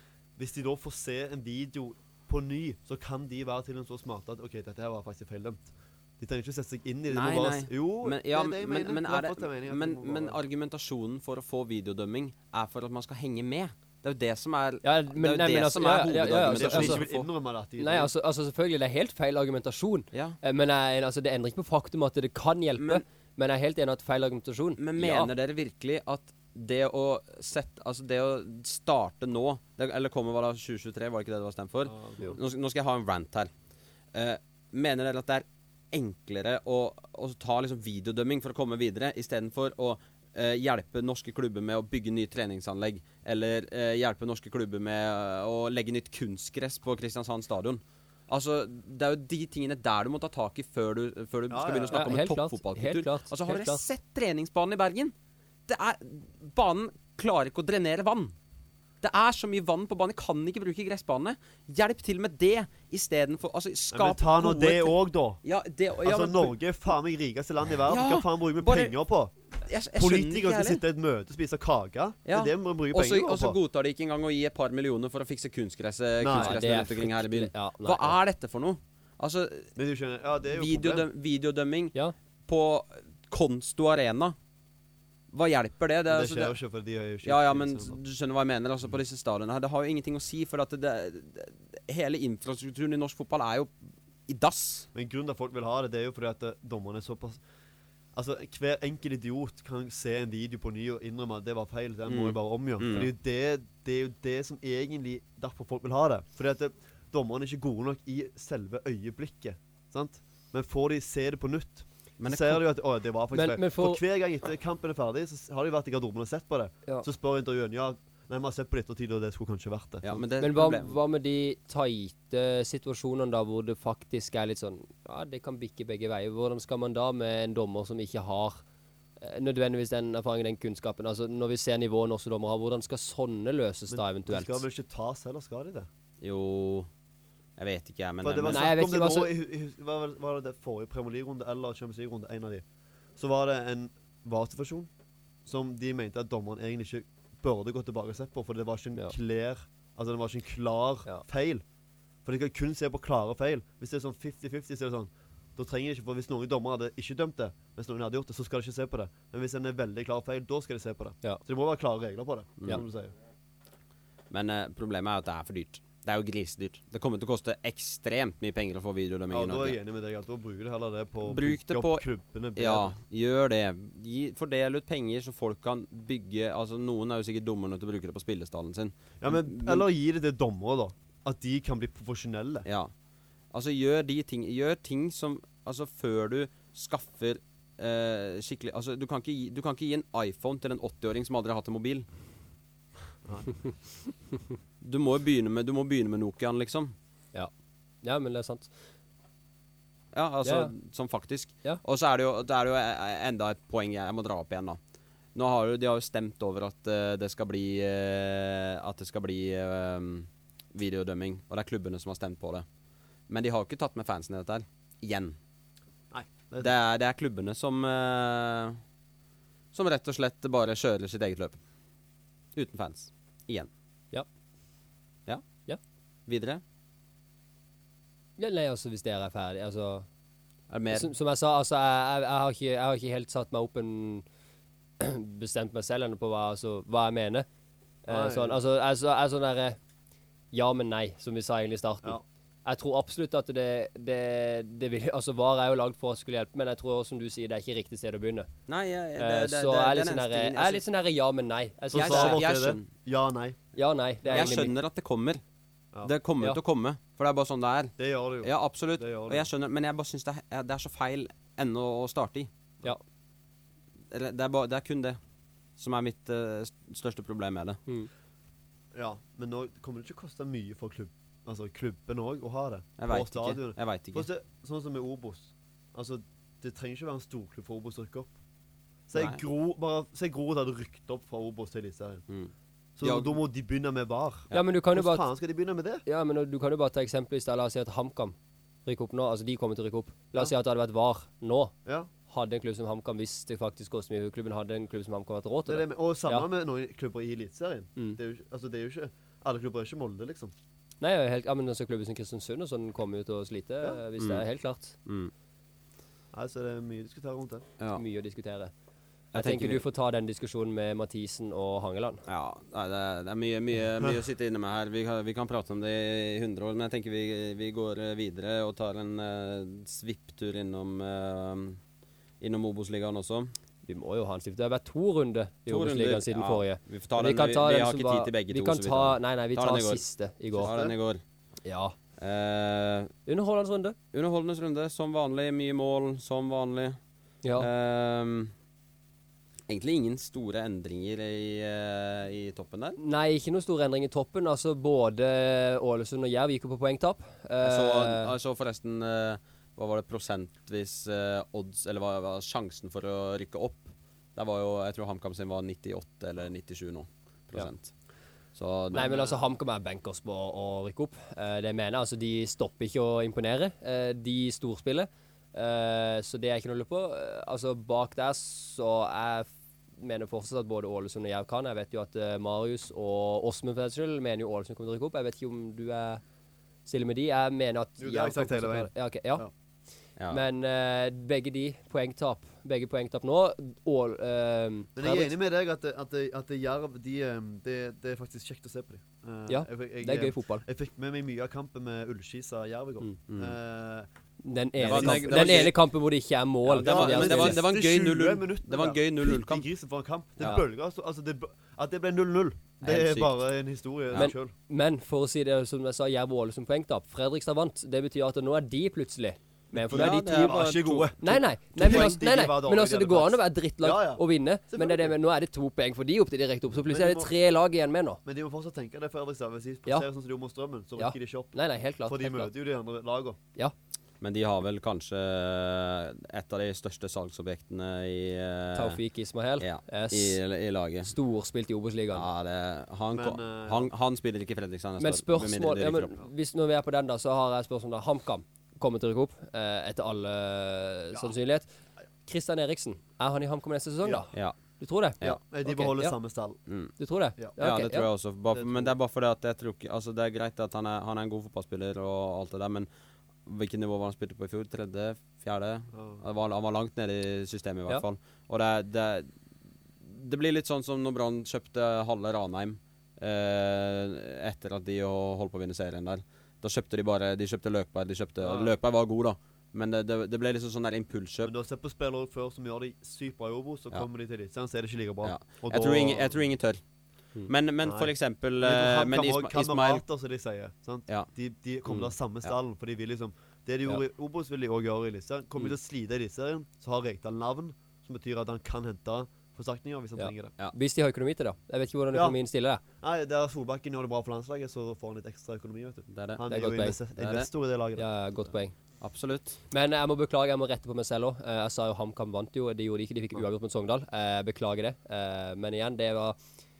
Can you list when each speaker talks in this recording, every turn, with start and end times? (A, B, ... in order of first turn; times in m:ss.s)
0:00.4-0:10.4 A
0:07.1-0:17.2 B
0:14.8-0:17.0 C
0:16.4-0:18.1 A
0:17.8-0:25.3 C
0:20.1-0:20.4 B
0:22.8-0:23.0 B
0:24.8-0:33.5 B
0:31.9-0:32.4 A
0:34.1-0:55.1 B
0:51.5-0:52.0 A
0:51.9-0:53.8 C
0:55.7-0:58.4 B
0:59.0-1:06.6 B
1:03.9-1:05.4 A
1:06.0-1:09.3 A
1:07.9-1:08.9 B
1:09.6-1:10.8 B
1:09.9-1:13.6 A
1:12.3-1:19.7 B
1:16.2-1:16.6 A
1:16.3-1:18.2 C
1:19.8-1:21.1 A
1:20.5-1:21.9 B
1:22.5-1:24.4 B
1:25.3-1:26.6 B
1:26.1-1:28.0 A
1:27.2-1:33.7 B
1:34.3-1:34.9 B
1:34.9-1:37.4 A
1:38.2-2:00.2 A
1:42.1-1:43.1 B
1:52.2-1:52.6 B
1:53.3-1:54.0 C
2:00.0-2:01.0 B
2:00.4-2:08.6 C
2:09.2-2:14.6 C
2:13.9-2:15.9 A
2:16.2-2:16.9 B
2:17.6-2:18.7 B
2:18.2-2:22.6 A
2:18.5-2:19.3 C
2:23.2-2:24.9 A
2:25.5-2:31.6 A
2:32.2-2:43.1 A
2:44.3-2:49.8 B
2:49.3-2:53.0 A
2:51.2-2:52.0 B
2:52.6-2:59.9 B
2:59.2-3:02.7 A
3:02.6-3:02.9 B
3:03.5-3:12.1 B
3:14.8-3:17.0 B
3:18.0-3:18.7 C
3:20.1-3:24.8 B
3:20.4-3:20.7 C
3:25.4-3:32.6 B
3:33.3-3:35.4 B
3:36.1-3:36.7 A
3:36.6-3:38.8 B
3:39.7-3:41.6 B
3:42.6-3:43.7 B
3:46.3-3:46.6 B
3:48.4-3:50.1 C
3:50.7-3:51.1 B
3:50.9-3:54.2 C
3:55.0-3:57.5 C
3:58.1-3:59.8 C
3:58.1-3:58.6 A
4:00.5-4:08.5 C
4:08.7-4:10.8 B
4:09.2-4:12.4 C
4:11.9-4:13.6 A
4:11.9-4:12.9 B
4:13.8-4:14.7 C
4:14.3-4:14.5 A
4:14.3-4:15.4 B
4:16.0-4:22.5 B
4:18.0-4:19.5 A
4:24.1-4:25.2 B
4:25.8-4:27.8 B
4:28.9-4:38.3 A
4:33.0-4:34.3 B
4:39.1-4:42.2 A
4:39.2-4:39.4 B
4:42.3-4:43.4 B
4:43.0-4:46.0 A
4:44.5-4:45.3 C
4:46.1-4:48.4 C
4:48.9-4:51.7 C
4:52.3-4:56.5 C
4:55.7-5:00.5 A
5:01.0-5:05.0 C
5:04.2-5:04.4 B
5:05.0-5:05.3 B
5:06.3-5:07.7 A
5:07.9-5:08.7 C
5:09.3-5:12.2 C
5:09.3-5:09.8 B
5:12.3-5:21.8 B
5:22.4-5:23.5 B
5:23.9-5:30.7 C
5:25.7-5:30.0 B
5:30.6-5:30.9 A
5:30.6-5:31.2 B
5:31.6-5:32.0 C
5:32.2-5:33.1 B
5:33.3-5:34.0 C
5:34.1-5:37.0 B
5:37.4-5:37.7 C
5:37.6-5:38.5 B
5:39.7-5:43.0 B
5:43.0-5:48.3 C
5:47.6-5:57.9 B
5:58.6-5:59.3 B
5:58.9-6:16.2 C
6:16.9-6:19.5 C
6:18.0-6:19.5 A
6:20.2-6:20.4 B
6:20.3-6:25.3 C
6:25.0-6:34.1 A
6:29.5-6:30.6 C
6:33.3-6:33.6 B
6:34.4-6:37.6 C
6:34.8-6:35.8 A
6:34.8-6:35.8 B
6:36.7-6:44.5 A
6:36.7-6:39.7 B
6:42.8-6:43.3 B
6:44.2-6:50.6 C
6:49.8-6:55.1 A
6:49.9-6:51.1 B
6:51.2-6:58.2 C
6:51.8-6:52.2 B
6:56.9-6:57.3 A
6:58.2-7:01.6 A
7:01.0-7:02.5 C
7:02.1-7:03.4 A
7:04.2-7:09.0 B
7:08.7-7:10.4 C
7:09.6-7:11.1 B
7:11.0-7:12.3 C
7:12.1-7:16.2 B
7:13.1-7:13.9 A
7:15.0-7:21.7 C
7:22.3-7:26.2 C
7:25.2-7:26.6 A
7:26.7-7:26.9 B
7:27.0-7:28.1 C
7:27.6-7:32.9 B
7:28.5-7:28.9 A
7:33.4-7:39.3 B
7:35.9-7:36.2 A
7:40.0-7:51.5 B
7:48.4-7:48.7 A
7:51.4-7:56.4 A
7:55.2-7:56.8 B
7:57.5-8:00.0 B
7:57.8-8:10.5 A
8:01.9-8:02.5 B
8:10.2-8:12.8 C
8:13.0-8:18.0 A
8:16.1-8:16.4 B
8:16.5-8:17.0 C
8:17.2-8:17.5 B
8:18.0-8:18.8 C
8:19.0-8:19.6 B
8:19.7-8:26.4 C